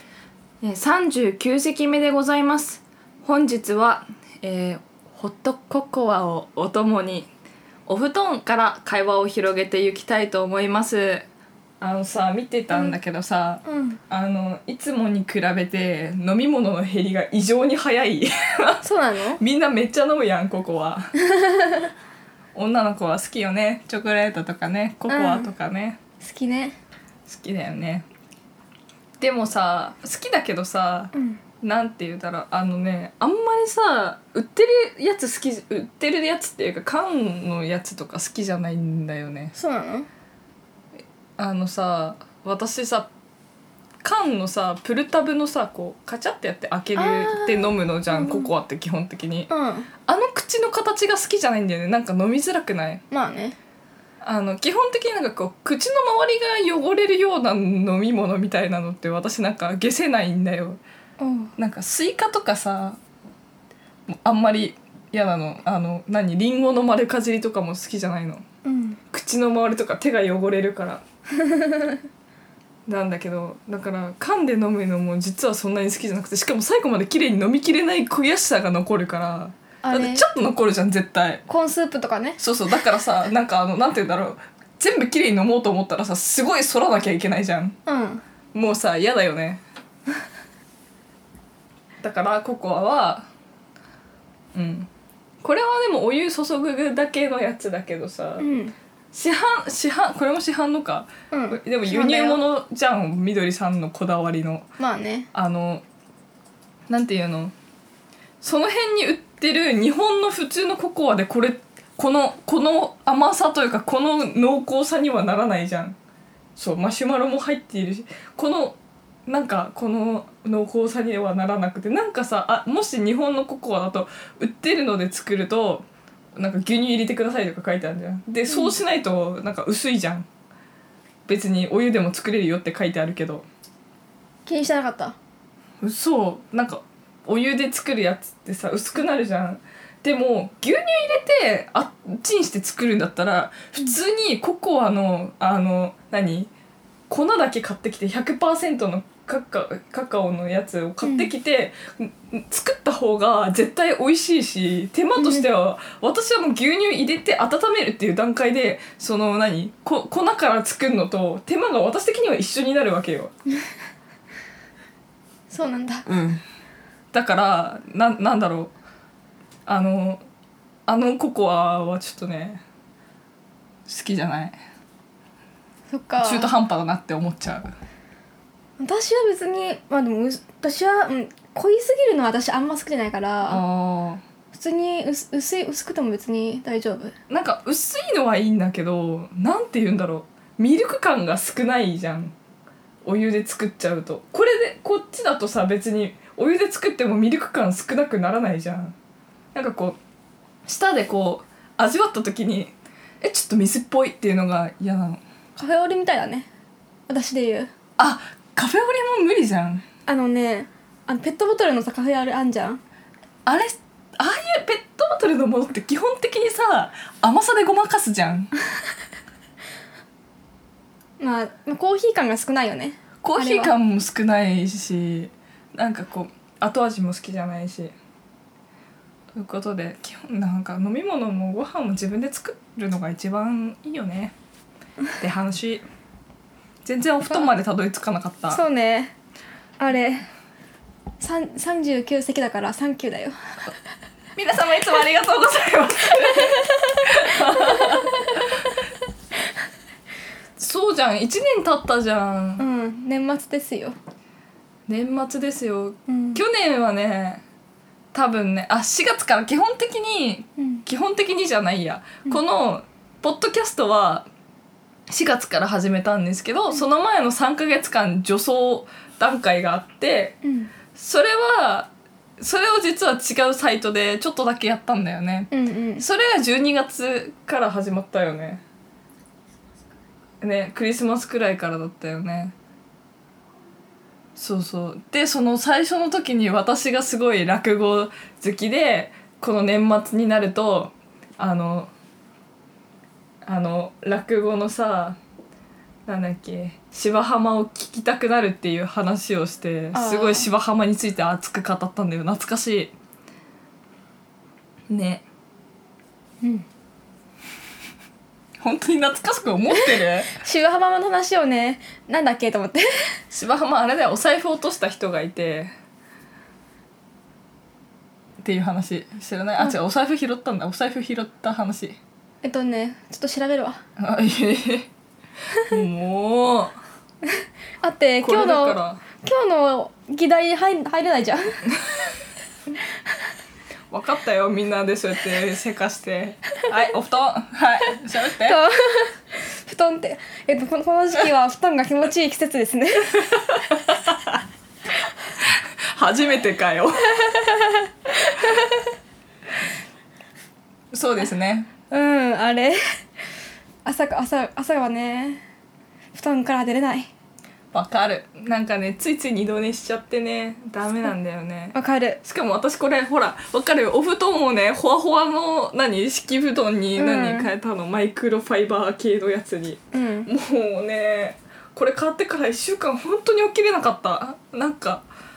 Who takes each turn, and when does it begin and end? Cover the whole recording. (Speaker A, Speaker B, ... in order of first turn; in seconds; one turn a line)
Speaker A: 0.6-7.3
Speaker A: 7.9-11.3
Speaker A: 11.8-21.1
Speaker B: 13.7-14.0
Speaker B: 18.8-19.4
Speaker B: 21.2-21.9
Speaker A: 22.6-26.0
Speaker B: 25.1-25.5
Speaker B: 26.2-26.8
Speaker A: 27.3-28.1
Speaker A: 29.2-39.5
Speaker B: 31.1-31.4
Speaker B: 39.5-40.1
Speaker A: 41.4-43.1
Speaker A: 44.0-49.5
Speaker B: 47.0-48.5
Speaker B: 49.5-49.9
Speaker A: 50.1-53.0
Speaker B: 53.1-53.6
Speaker A: 54.2-60.8
Speaker B: 61.2-61.5
Speaker A: 61.6-63.0
Speaker A: 64.1-68.4
Speaker B: 68.7-69.0
Speaker A: 69.1-71.0
Speaker B: 71.4-71.9
Speaker A: 72.9-81.4
Speaker B: 79.8-80.2
Speaker B: 81.5-82.4
Speaker A: 82.4-87.8
Speaker B: 87.9-88.2
Speaker A: 88.5-89.6
Speaker A: 92.0-93.3
Speaker A: 94.5-94.9
Speaker A: 95.4-98.5
Speaker B: 98.4-98.7
Speaker A: 99.1-104.7
Speaker B: 101.3-102.4
Speaker B: 104.8-105.3
Speaker A: 105.3-105.8
Speaker A: 106.9-107.5
Speaker A: 108.4-116.0
Speaker A: 116.6-125.8
Speaker A: 126.4-130.3
Speaker B: 128.5-128.8
Speaker A: 131.3-133.5
Speaker B: 134.5-135.2
Speaker A: 135.8-146.5
Speaker A: 147.1-163.3
Speaker B: 151.0-151.3
Speaker B: 155.2-155.5
Speaker B: 165.5-166.1
Speaker A: 166.1-166.4
Speaker A: 167.1-168.7
Speaker A: 169.7-170.2
Speaker A: 170.9-172.6
Speaker A: 173.9-174.6
Speaker B: 175.9-176.5
Speaker A: 176.2-177.8
Speaker B: 178.8-183.6
Speaker A: 183.4-184.2
Speaker B: 184.5-187.2
Speaker A: 187.3-192.3
Speaker A: 193.0-198.9
Speaker A: 199.5-200.0
Speaker A: 200.7-205.2
Speaker B: 205.6-206.5
Speaker B: 207.1-207.7
Speaker A: 208.0-209.8
Speaker B: 210.1-212.8
Speaker A: 213.5-218.5
Speaker B: 221.2-223.7
Speaker A: 223.2-227.9
Speaker A: 229.3-234.3
Speaker A: 235.2-235.8
Speaker A: 236.8-238.6
Speaker B: 238.5-239.1
Speaker B: 239.8-240.3
Speaker B: 241.2-243.4
Speaker A: 244.4-248.7
Speaker B: 246.3-246.8
Speaker B: 247.3-248.4
Speaker A: 250.6-252.6
Speaker B: 252.6-254.0
Speaker A: 254.9-257.4
Speaker B: 256.1-256.4
Speaker A: 258.1-264.3
Speaker B: 260.6-260.8
Speaker A: 265.1-270.4
Speaker B: 270.4-270.7
Speaker A: 270.9-278.6
Speaker B: 275.5-276.1
Speaker A: 280.4-282.5
Speaker A: 284.4-291.9
Speaker A: 293.4-295.2
Speaker A: 296.1-302.9
Speaker B: 299.9-300.5
Speaker A: 304.9-305.2
Speaker A: 308.6-310.3
Speaker B: 309.7-313.2
Speaker A: 313.3-315.7
Speaker A: 318.4-322.0
Speaker B: 322.4-323.8
Speaker A: 324.0-324.9
Speaker A: 325.6-326.8
Speaker B: 327.3-331.4
Speaker A: 328.2-329.0
Speaker A: 333.9-338.6
Speaker B: 338.4-343.2
Speaker A: 343.1-344.4
Speaker A: 345.4-347.4
Speaker B: 347.2-348.9
Speaker A: 350.9-351.7
Speaker B: 351.9-352.8
Speaker B: 353.8-355.4
Speaker B: 356.1-357.1
Speaker A: 357.7-375.1
Speaker B: 361.7-362.2
Speaker B: 367.0-367.5
Speaker B: 369.9-370.3